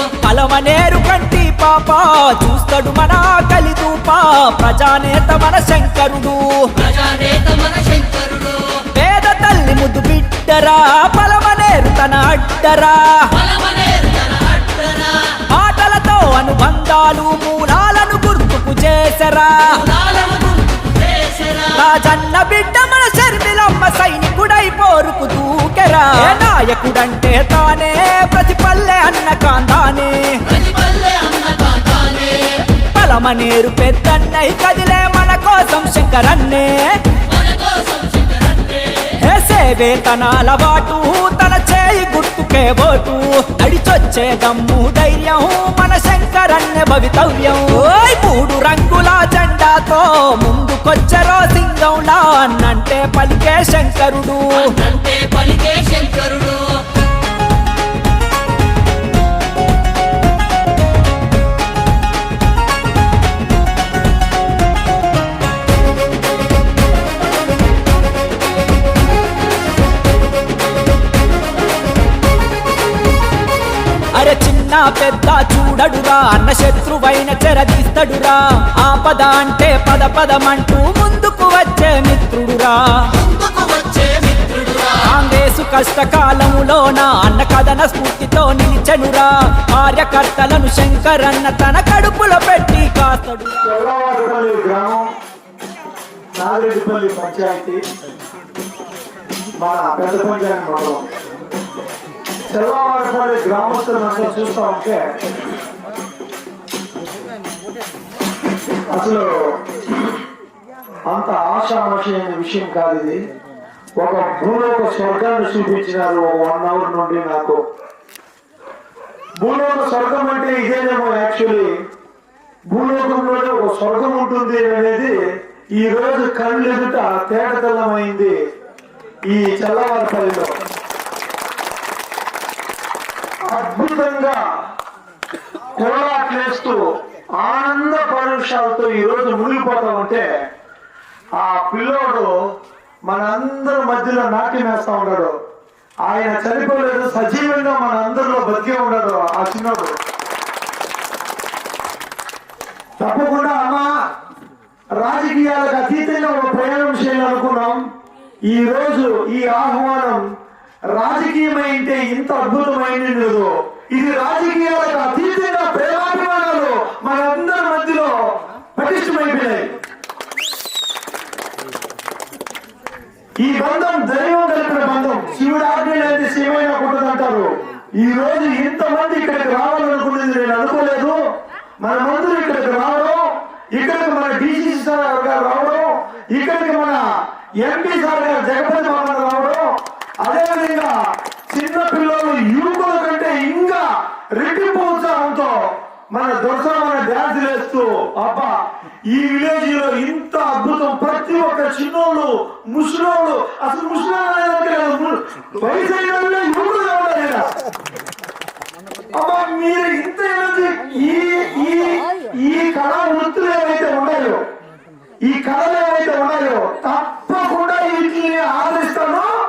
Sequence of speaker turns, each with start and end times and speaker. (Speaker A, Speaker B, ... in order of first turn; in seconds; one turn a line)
Speaker A: 0.2-6.7
Speaker B: 7.0-8.6
Speaker A: 8.9-13.3
Speaker B: 13.6-14.2
Speaker A: 15.5-19.9
Speaker B: 20.1-20.5
Speaker A: 21.7-30.4
Speaker B: 30.8-32.2
Speaker A: 32.9-37.0
Speaker A: 39.2-54.7
Speaker B: 54.9-56.6
Speaker A: 74.1-83.2
Speaker A: 85.0-93.6
Speaker C: 93.6-95.1
Speaker C: 96.3-97.8
Speaker C: 99.6-101.0
Speaker C: 102.5-105.0
Speaker C: 108.9-109.5
Speaker C: 111.1-113.2
Speaker C: 114.0-117.6
Speaker C: 119.4-121.7
Speaker C: 122.7-125.2
Speaker C: 125.8-128.3
Speaker C: 129.3-130.6
Speaker C: 133.5-134.4
Speaker C: 135.7-136.8
Speaker C: 137.4-140.3
Speaker C: 141.4-142.3
Speaker C: 143.1-145.3
Speaker C: 146.0-150.0
Speaker C: 153.0-153.9
Speaker C: 155.0-157.8
Speaker C: 158.5-160.2
Speaker C: 160.9-168.1
Speaker C: 168.7-169.7
Speaker C: 173.4-181.2
Speaker C: 181.8-187.0
Speaker C: 187.6-189.6
Speaker C: 190.2-190.9
Speaker C: 191.5-193.8
Speaker C: 194.4-195.6
Speaker C: 196.1-198.6
Speaker C: 199.1-207.4
Speaker C: 209.1-214.4
Speaker C: 215.2-219.3